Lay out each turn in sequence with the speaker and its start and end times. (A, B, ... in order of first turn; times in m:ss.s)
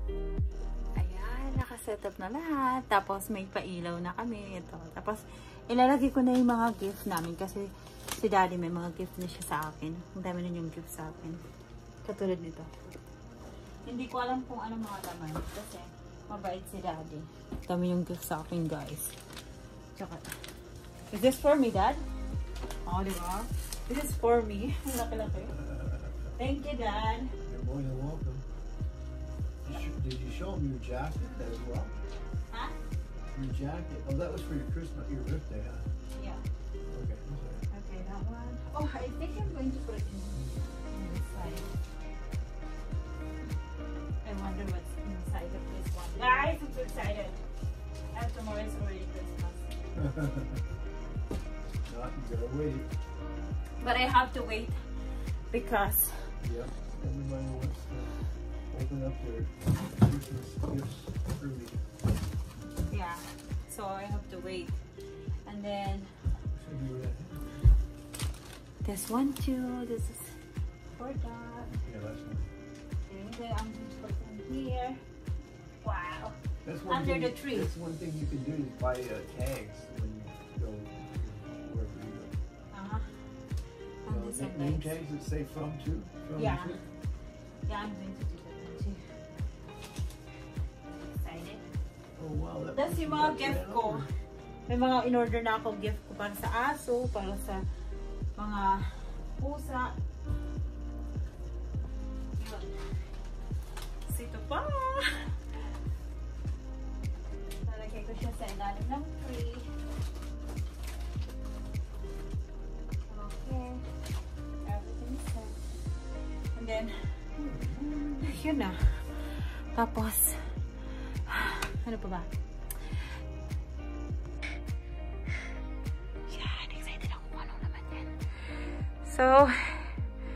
0:01.0-0:11.4 A
0:12.0-0:12.7 A
0:13.8-0:19.1 A
0:19.9-0:20.2 A
0:21.1-0:22.0 A
0:22.8-0:25.6 A
0:25.5-0:26.3 B
0:26.4-0:27.3 A
0:27.4-0:28.4 B
0:29.6-0:31.9 B
0:33.3-0:35.8 B
0:36.1-0:36.4 A
0:36.9-0:37.6 B
0:37.7-0:41.7 A
0:39.3-0:39.6 B
0:40.3-0:40.7 B
0:44.2-0:47.4 A
0:48.1-0:49.6 A
0:49.9-0:50.6 B
0:51.8-0:52.9 B
0:53.8-0:54.7 A
0:55.5-0:56.3 A
0:56.4-0:58.1 B
0:58.7-1:01.8 B
1:02.9-1:04.7 A
1:05.4-1:06.1 A
1:06.5-1:07.7 B
1:08.8-1:10.3 A
1:10.9-1:11.8 A
1:11.8-1:12.5 B
1:13.1-1:15.0 A
1:15.8-1:16.3 A
1:16.6-1:22.3 B
1:16.9-1:17.7 A
1:22.7-1:23.2 A
1:24.0-1:25.0 A
1:24.1-1:26.8 B
1:26.4-1:26.8 A
1:27.7-1:29.0 A
1:31.0-1:31.6 A
1:32.2-1:34.1 B
1:32.7-1:34.1 A
1:34.7-1:37.6 A
1:38.4-1:39.9 A
1:42.4-1:42.8 A
1:44.0-1:45.3 A
1:47.6-1:49.6 A
1:53.1-1:53.8 A
1:54.6-1:55.6 A
1:56.5-2:00.4 A
1:57.5-1:57.8 B
2:01.3-2:02.3 A
2:06.3-2:08.1 A
2:09.0-2:09.9 A